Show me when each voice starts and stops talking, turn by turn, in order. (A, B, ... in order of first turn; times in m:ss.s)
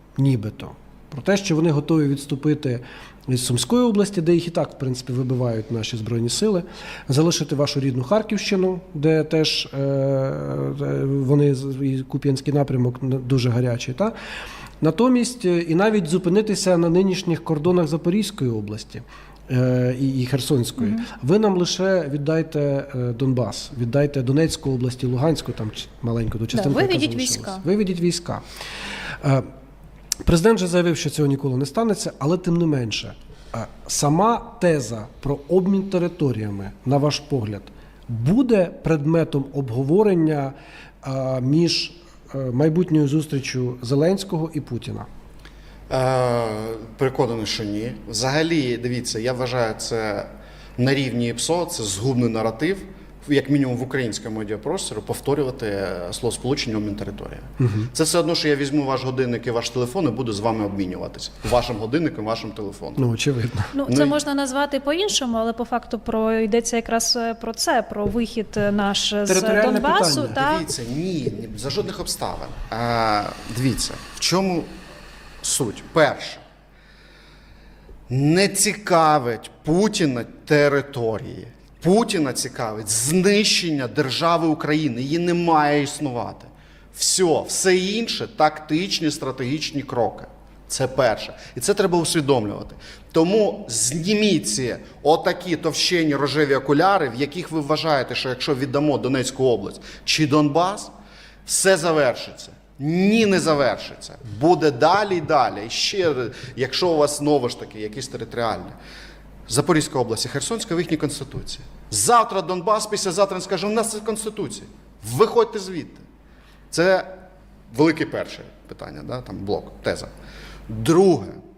0:00.2-0:14.1 A
0:14.8-0:28.4 A
0:26.5-0:27.6 B
0:29.2-0:29.5 A
0:30.2-0:45.1 A
0:45.9-1:03.0 C
0:57.6-0:57.9 A
1:03.0-1:03.7 A
1:03.7-1:10.6 B
1:03.9-1:04.2 C
1:09.2-1:10.4 A
1:10.3-1:14.7 C
1:15.4-1:16.4 C
1:18.1-1:40.9 C
1:41.4-1:48.7 C
1:49.5-1:56.0 C
1:56.7-1:57.1 C
1:57.7-2:00.1 C
2:00.7-2:01.4 C